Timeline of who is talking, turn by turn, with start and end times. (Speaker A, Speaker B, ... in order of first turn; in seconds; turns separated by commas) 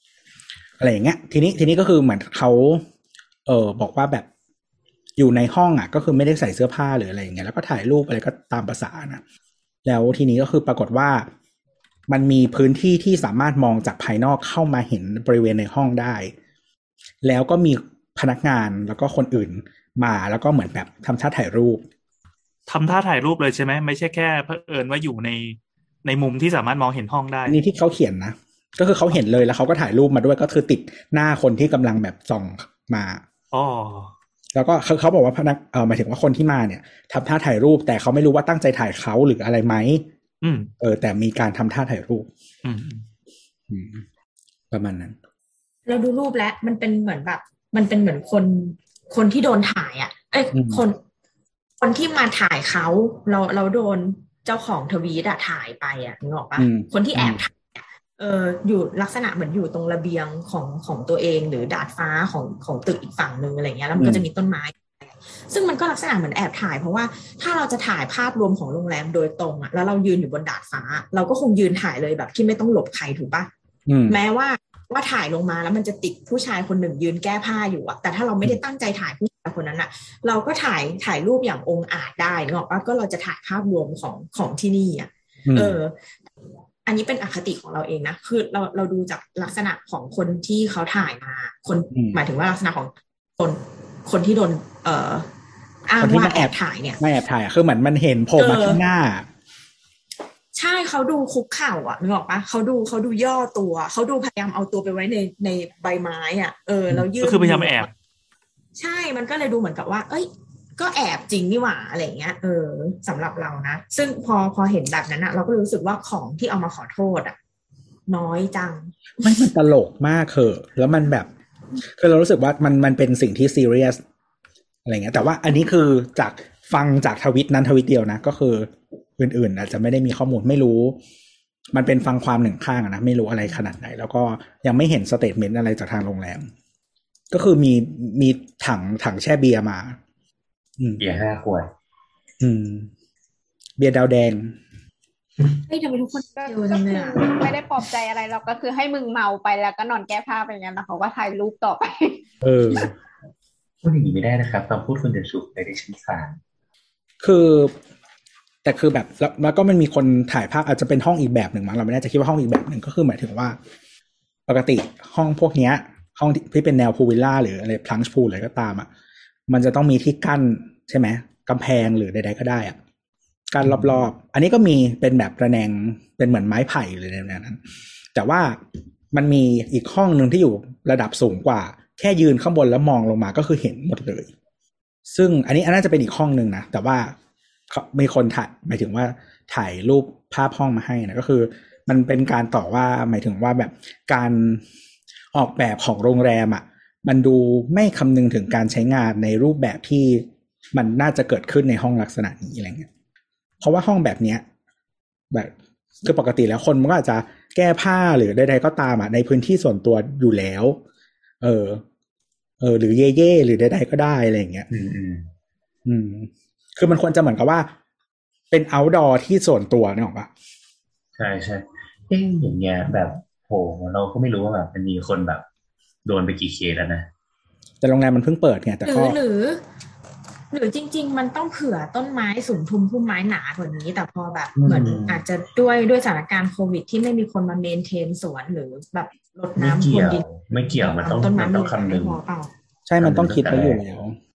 Speaker A: 0.8-2.8, Speaker A: 3.5-4.3, Speaker A: 5.2-9.2, Speaker A: 9.8-11.3, Speaker A: 12.1-16.3, Speaker A: 17.2-21.9, Speaker B: 22.7-27.6, Speaker A: 27.5-33.2, Speaker B: 33.5-34.1, Speaker A: 34.5-40.0, Speaker B: 40.4-40.7, Speaker A: 40.8-42.3, Speaker B: 42.6-43.0, Speaker A: 43.7-44.0, Speaker A: 44.7-45.2, Speaker C: 45.9-51.0, Speaker A: 50.5-50.8, Speaker C: 51.8-73.5, Speaker A: 56.6-57.4, Speaker A: 64.0-64.2, Speaker A: 73.9-74.2, Speaker C: 74.1-85.9, Speaker A: 85.5-85.8, Speaker C: 86.8-95.3, Speaker A: 91.9-92.2, Speaker C: 95.9-97.0, Speaker A: 96.0-99.3, Speaker C: 98.4-98.8, Speaker C: 100.5-107.9, Speaker B: 107.0-107.9, Speaker C: 108.8-117.4, Speaker C: 118.1-118.9, Speaker A: 119.2-121.3, Speaker A: 122.0-124.0, Speaker A: 124.9-131.0, Speaker A: 131.7-136.5, Speaker A: 137.3-140.0, Speaker D: 141.0-141.7, Speaker A: 142.4-142.9, Speaker A: 143.8-144.6, Speaker C: 145.7-147.3, Speaker E: 146.4-152.2, Speaker A: 152.4-152.9, Speaker D: 153.8-156.4, Speaker A: 157.2-157.7, Speaker A: 158.6-163.6, Speaker A: 164.5-168.9, Speaker A: 169.5-172.8, Speaker A: 173.5-177.6, Speaker A: 178.1-178.6, Speaker A: 179.1-184.3, Speaker A: 185.1-187.2, Speaker A: 187.7-194.6, Speaker A: 195.3-202.9, Speaker A: 203.6-204.4, Speaker A: 205.3-210.8, Speaker A: 211.4-211.8, Speaker A: 212.6-214.7, Speaker D: 214.7-215.3, Speaker A: 215.9-217.7, Speaker A: 218.5-220.3, Speaker D: 221.2-225.5, Speaker D: 226.1-227.1, Speaker A: 227.8-229.2, Speaker C: 228.9-229.6, Speaker C: 230.5-242.5, Speaker D: 234.6-235.2, Speaker D: 239.6-242.2, Speaker A: 242.9-244.2, Speaker D: 243.0-243.8